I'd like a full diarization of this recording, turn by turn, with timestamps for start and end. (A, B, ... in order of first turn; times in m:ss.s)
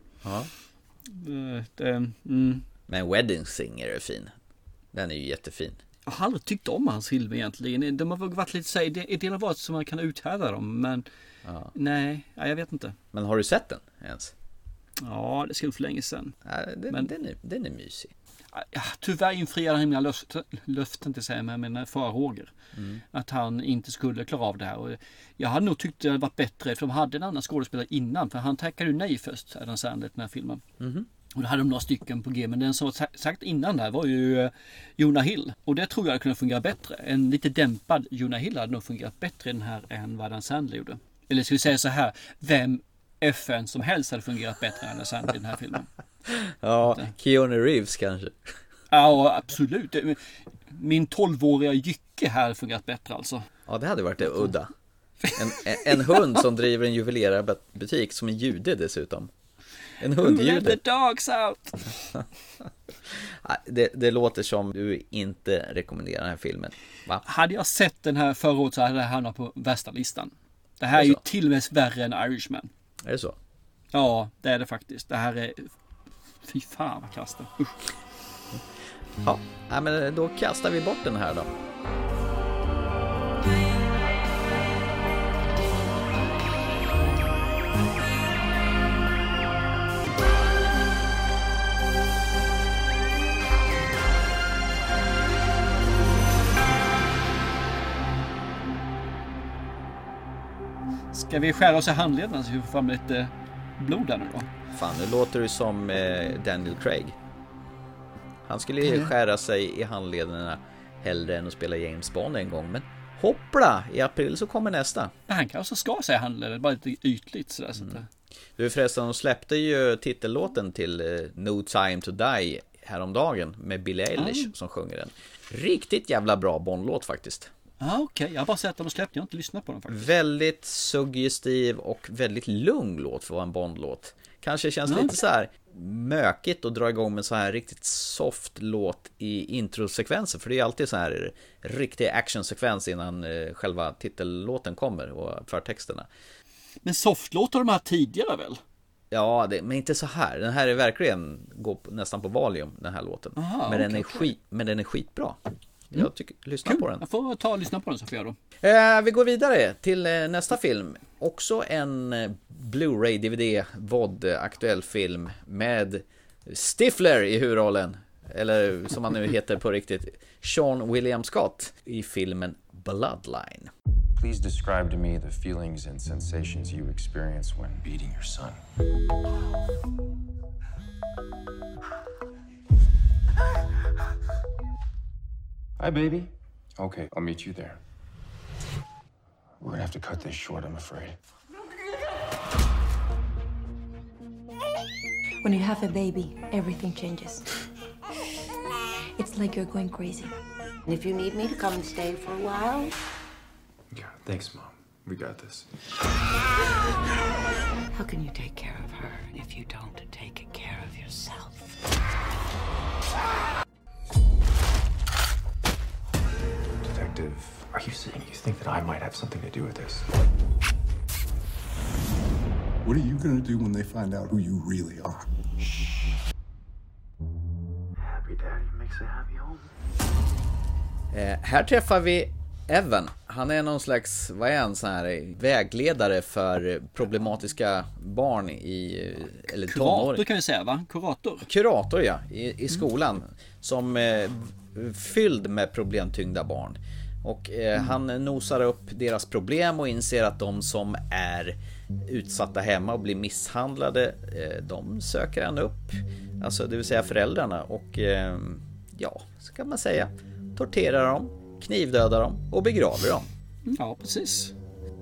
0:00.2-0:00.5 A
0:01.0-0:02.6 B
0:02.9-0:04.3 A
0:04.9-0:05.8 A
0:06.0-0:11.0 B
0:11.4-0:11.7 A
0:11.7-0:13.0 B
0:13.1-0:14.3 A
0:15.0-0:16.4 B
0:16.4-0:18.1 A
0:18.5-0:22.5 B
0:22.7-0:23.0 A
0:23.1-0:30.6 B
0:30.8-0:31.1 A
0:31.3-0:45.9 B
0:46.3-0:48.5 A
0:48.9-0:50.2 B
0:50.7-0:53.5 B
0:53.7-0:54.7 A
0:55.3-0:59.3 A
1:00.0-1:00.8 A
1:00.2-1:02.0 B
1:03.1-1:07.2 A
1:07.2-1:12.7 B
1:10.9-1:11.2 A
1:13.0-1:13.4 A
1:13.9-1:15.7 B
1:16.4-1:17.9 B
1:19.2-1:21.5 A
1:41.1-1:44.5 B
1:44.7-1:47.2 A
1:48.4-1:55.1 A
1:48.8-1:49.1 B
1:55.3-1:58.1 B
1:58.6-2:07.5 A
2:04.2-2:04.5 B
2:07.8-2:10.1 B
2:09.9-2:26.1 A
2:14.9-2:15.2 B
2:26.8-2:28.6 B
2:29.1-2:37.0 A
2:33.4-2:34.3 B
2:36.6-2:38.4 B
2:38.6-2:53.7 A
2:54.2-2:58.6 C
3:05.8-3:07.8 C
3:09.6-3:11.2 C
3:15.4-3:17.4 D
3:19.2-3:20.3 D
3:20.9-3:22.9 E
3:23.9-3:25.7 C
3:27.9-3:31.8 E
3:36.8-3:40.0 C
3:42.8-3:45.2 F
3:48.0-3:49.7 C
3:51.1-4:00.2 A
3:59.6-4:01.5 B
4:01.4-4:23.3 A
4:23.7-4:24.5 B